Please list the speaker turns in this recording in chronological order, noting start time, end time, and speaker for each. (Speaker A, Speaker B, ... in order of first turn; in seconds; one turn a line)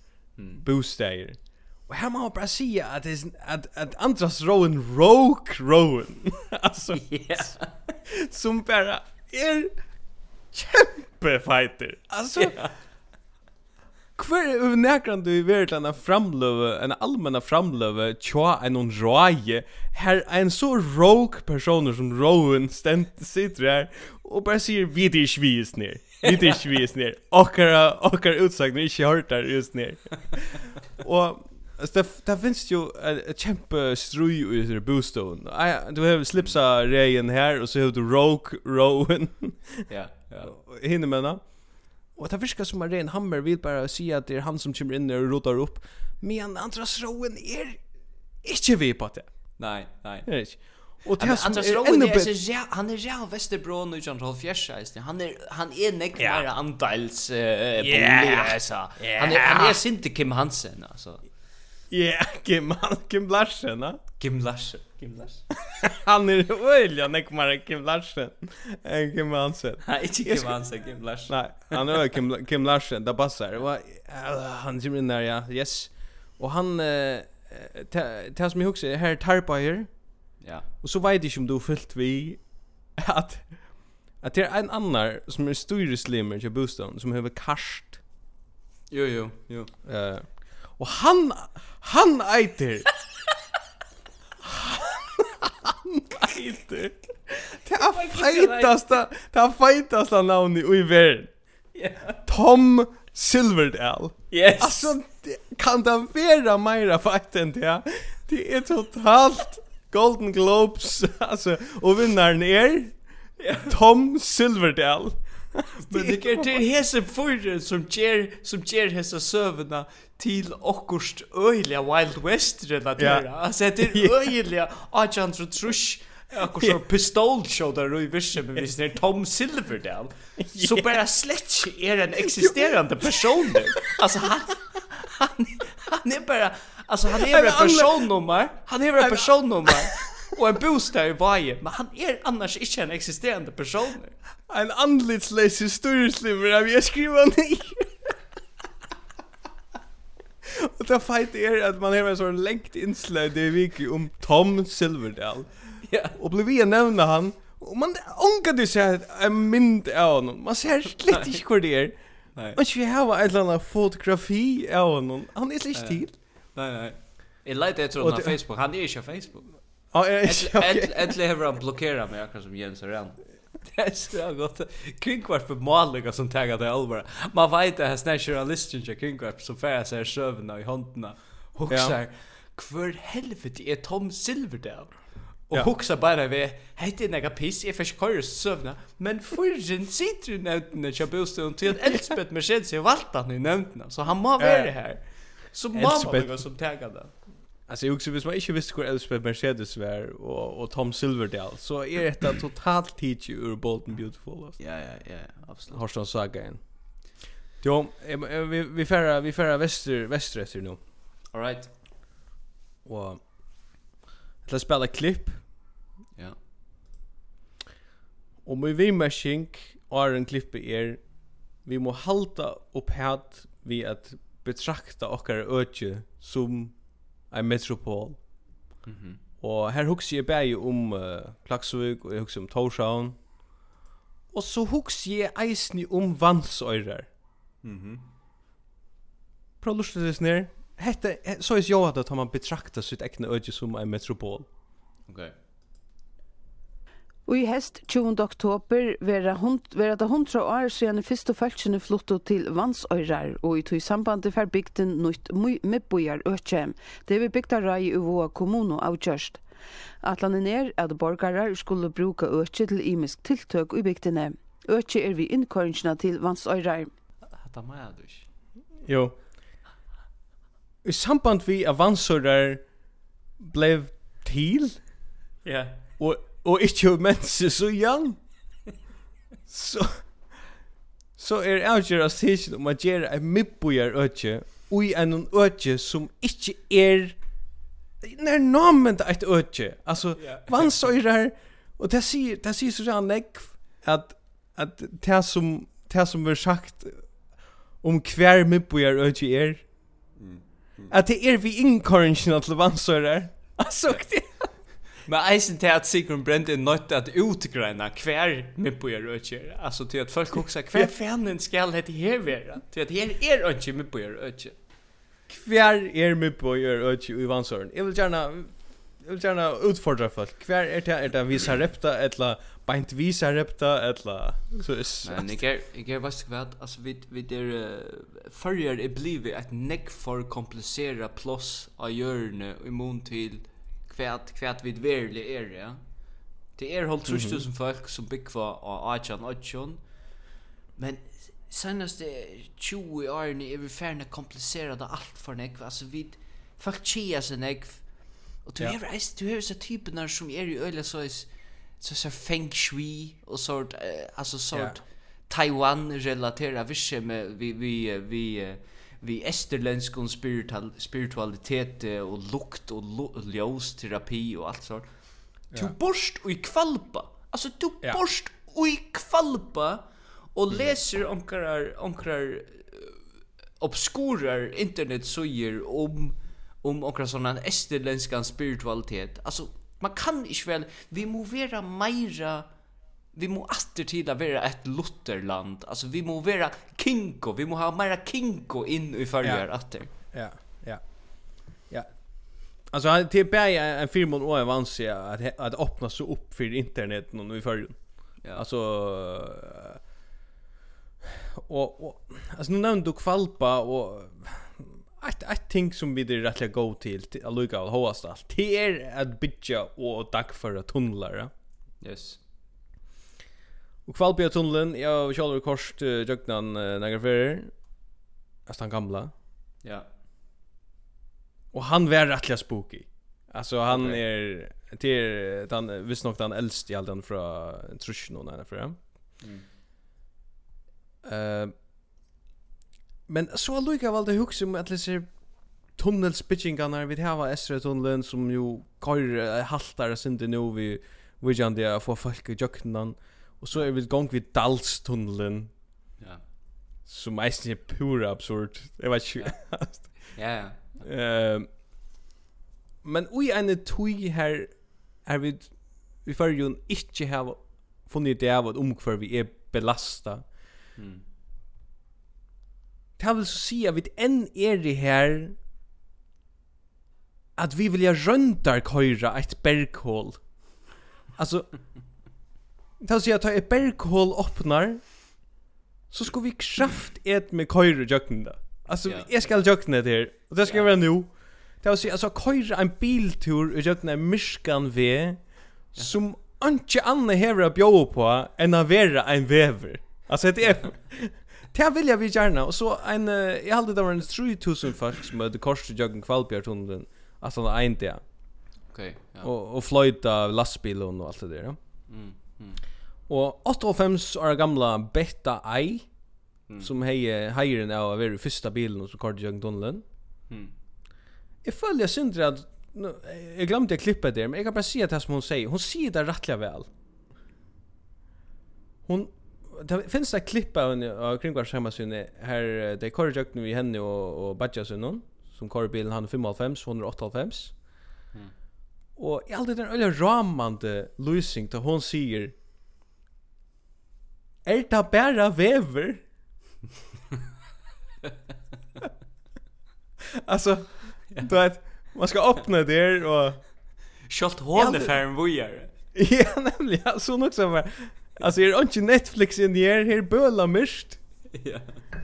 Speaker A: 0.4-0.6
Speaker B: 0.6-7.5
Speaker A: 7.0-7.9
Speaker B: 8.1-9.7
Speaker B: 10.5-12.6
Speaker A: 12.4-12.7
Speaker B: 14.2-39.9
Speaker A: 39.9-40.5
Speaker B: 40.4-47.8
Speaker B: 48.4-49.3
Speaker A: 49.6-50.3
Speaker B: 50.2-52.3
Speaker A: 51.2-61.2
Speaker B: 56.2-56.4
Speaker B: 57.8-59.8
Speaker B: 61.9-64.0
Speaker A: 64.2-65.5
Speaker B: 65.6-70.6
Speaker A: 69.8-71.9
Speaker B: 71.2-80.2
Speaker A: 80.4-80.7
Speaker B: 80.8-88.0
Speaker A: 88.9-89.7
Speaker B: 89.8-92.9
Speaker B: 94.4-97.0
Speaker B: 97.5-101.3
Speaker A: 97.7-98.9
Speaker A: 101.7-102.2
Speaker B: 102.2-113.0
Speaker A: 104.3-104.9
Speaker A: 113.4-113.7
Speaker B: 113.6-116.6
Speaker A: 115.9-144.2
Speaker B: 123.0-123.2
Speaker B: 123.8-124.1
Speaker B: 126.5-126.8
Speaker B: 130.5-131.0
Speaker B: 132.2-133.9
Speaker B: 137.1-138.1
Speaker B: 139.0-140.3
Speaker B: 144.5-148.1
Speaker B: 150.4-166.1
Speaker A: 155.8-156.2
Speaker A: 165.7-197.1
Speaker B: 168.0-168.3
Speaker B: 169.9-171.0
Speaker B: 181.7-181.9
Speaker B: 194.4-194.7
Speaker B: 195.7-196.4
Speaker B: 197.7-204.6
Speaker A: 204.6-205.8
Speaker B: 205.7-210.8
Speaker A: 211.3-211.7
Speaker B: 212.8-213.2
Speaker B: 214.4-215.4
Speaker B: 218.4-228.2
Speaker A: 228.8-229.2
Speaker B: 229.4-233.3
Speaker B: 234.3-237.1
Speaker A: 237.6-238.0
Speaker B: 239.6-244.5
Speaker A: 245.1-245.3
Speaker C: 247.2-259.4
Speaker C: 260.0-266.9
Speaker A: 267.3-268.3
Speaker B: 268.8-269.1
Speaker B: 270.8-272.7
Speaker B: 273.4-274.8
Speaker A: 275.4-275.8
Speaker B: 276.0-278.2
Speaker B: 279.5-280.2
Speaker B: 281.2-287.2
Speaker B: 288.0-297.1
Speaker A: 290.2-290.7
Speaker B: 297.8-299.7
Speaker A: 300.1-300.9
Speaker B: 300.9-304.5
Speaker A: 305.0-314.6
Speaker B: 315.3-325.4
Speaker A: 325.0-335.8
Speaker A: 336.5-339.8
Speaker B: 337.1-337.4
Speaker A: 340.8-373.0
Speaker B: 354.5-354.8
Speaker A: 373.6-382.5
Speaker A: 383.1-389.9
Speaker B: 389.2-399.8
Speaker B: 401.1-411.3
Speaker A: 411.8-412.2
Speaker B: 413.9-417.6
Speaker B: 418.4-419.1
Speaker B: 421.5-428.8
Speaker A: 423.7-424.0
Speaker B: 431.0-431.5
Speaker B: 433.1-435.2
Speaker B: 435.7-445.5
Speaker B: 446.9-450.1
Speaker A: 449.2-450.9
Speaker B: 450.8-451.5
Speaker B: 452.8-460.2
Speaker A: 460.8-461.0
Speaker B: 463.0-465.4
Speaker B: 467.4-470.6
Speaker B: 471.1-471.6
Speaker B: 472.8-475.1
Speaker B: 475.9-498.0
Speaker A: 478.8-479.4
Speaker A: 480.4-480.7
Speaker A: 498.7-499.3
Speaker B: 499.2-501.6
Speaker A: 501.9-502.6
Speaker B: 503.1-505.9
Speaker B: 506.6-509.8
Speaker B: 511.4-516.7
Speaker B: 518.9-527.6
Speaker B: 529.0-532.3
Speaker B: 534.4-536.0
Speaker B: 540.2-543.7
Speaker A: 544.0-545.7
Speaker B: 544.5-545.0
Speaker B: 545.9-551.0
Speaker A: 551.3-551.8